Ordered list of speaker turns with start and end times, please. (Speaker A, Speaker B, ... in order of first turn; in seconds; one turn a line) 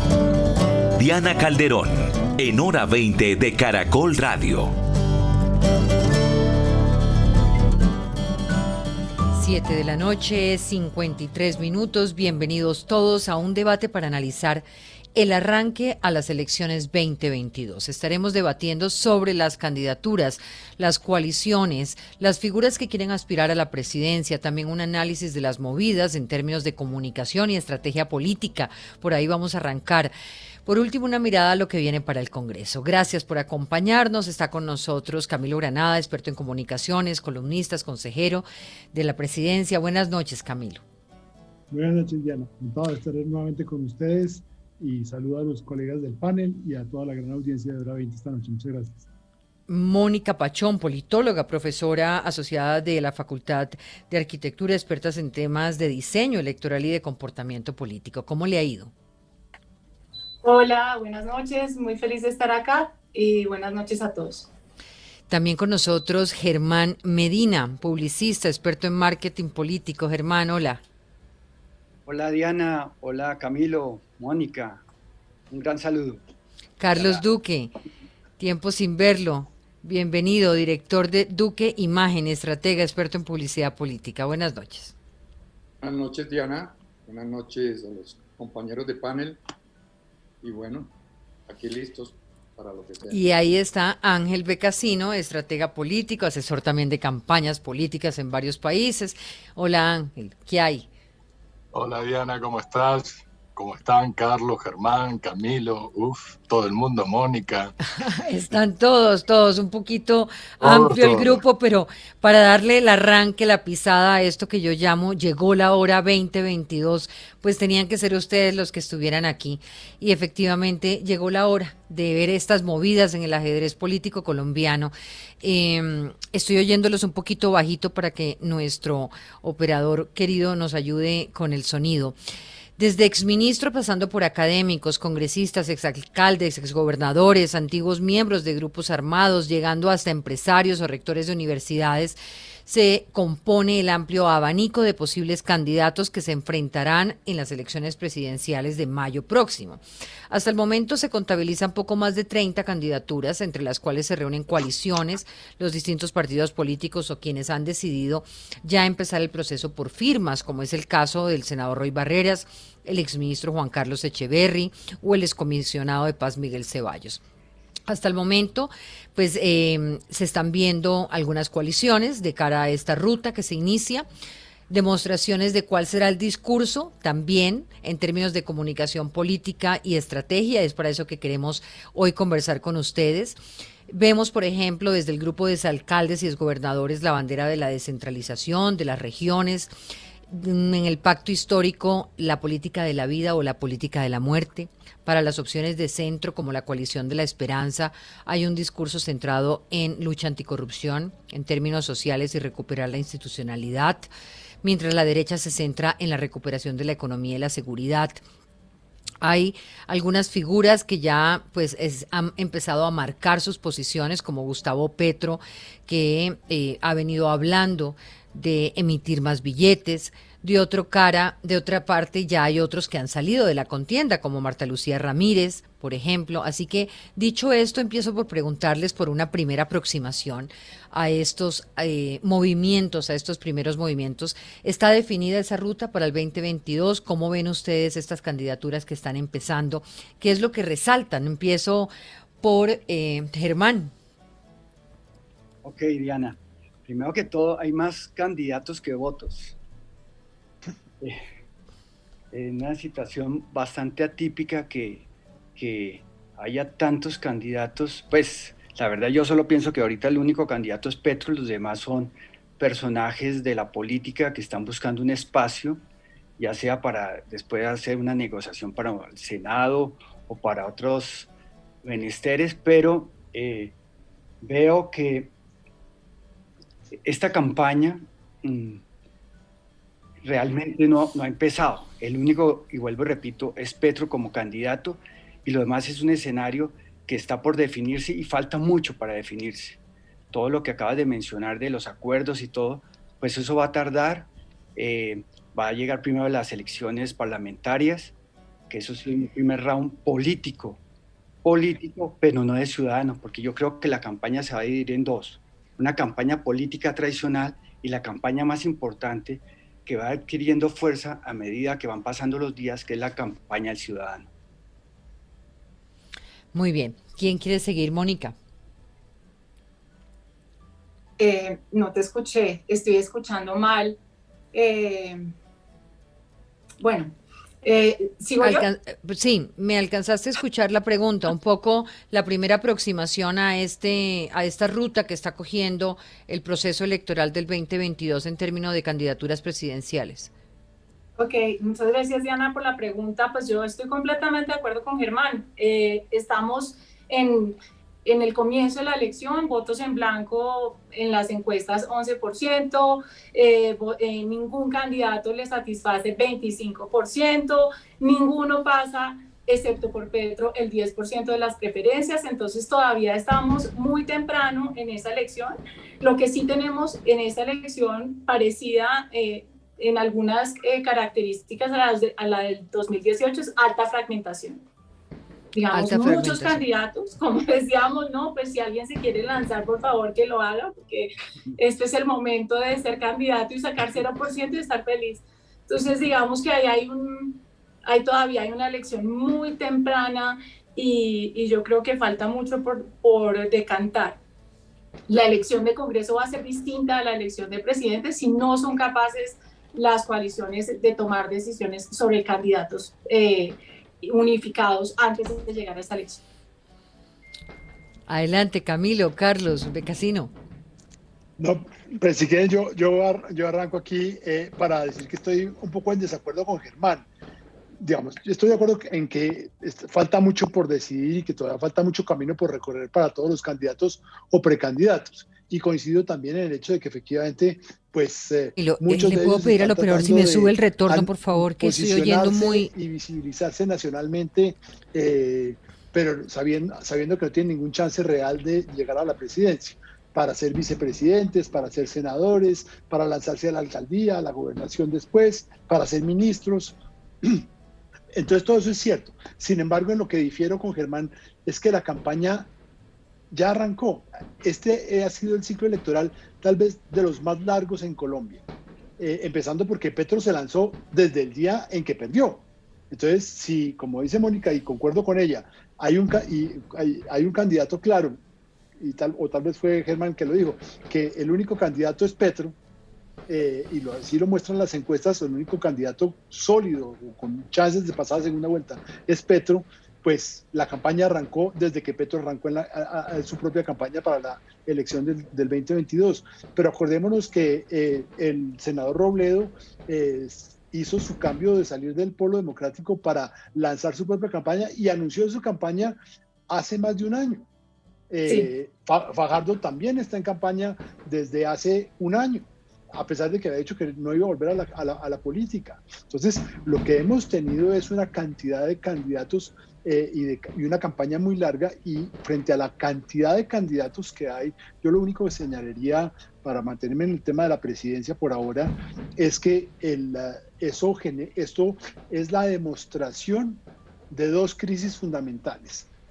Speaker A: 1.0-4.8
Speaker B: 9.3-14.6
Speaker B: 15.1-30.1
Speaker B: 30.6-40.8
Speaker C: 41.7-49.1
Speaker B: 49.7-58.9
Speaker D: 60.4-64.5
Speaker B: 65.3-70.8
Speaker E: 72.0-74.8
Speaker E: 75.5-76.2
Speaker B: 76.8-77.7
Speaker E: 76.9-77.2
Speaker B: 78.4-84.9
Speaker F: 85.8-89.4
Speaker F: 90.4-90.9
Speaker F: 91.5-93.2
Speaker B: 93.1-100.9
Speaker G: 101.7-107.7
Speaker B: 108.0-132.2
Speaker G: 110.6-111.4
Speaker B: 132.8-167.2
Speaker B: 167.9-174.1
Speaker B: 174.7-189.7
Speaker B: 190.3-204.1
Speaker B: 204.6-208.2
Speaker B: 209.2-243.9
Speaker E: 245.6-249.6
Speaker E: 252.3-265.8
Speaker E: 266.4-271.3
Speaker E: 271.8-273.7
Speaker E: 274.4-275.3
Speaker E: 277.0-278.8
Speaker E: 280.2-289.8
Speaker E: 290.3-298.1
Speaker E: 298.7-300.8
Speaker E: 301.4-314.3
Speaker B: 316.5-318.3
Speaker D: 321.2-324.0
Speaker D: 324.5-325.3
Speaker D: 326.8-328.6
Speaker B: 328.4-340.3
Speaker D: 341.2-374.6
Speaker D: 375.5-394.2
Speaker B: 375.7-376.6
Speaker D: 395.1-406.2
Speaker B: 408.1-410.3
Speaker C: 411.4-417.1
Speaker C: 417.8-447.4
Speaker B: 428.6-432.7
Speaker C: 448.1-452.5
Speaker C: 453.3-458.4
Speaker C: 459.0-468.2
Speaker C: 468.8-472.6
Speaker C: 473.3-496.0
Speaker C: 496.5-497.4
Speaker C: 498.1-525.9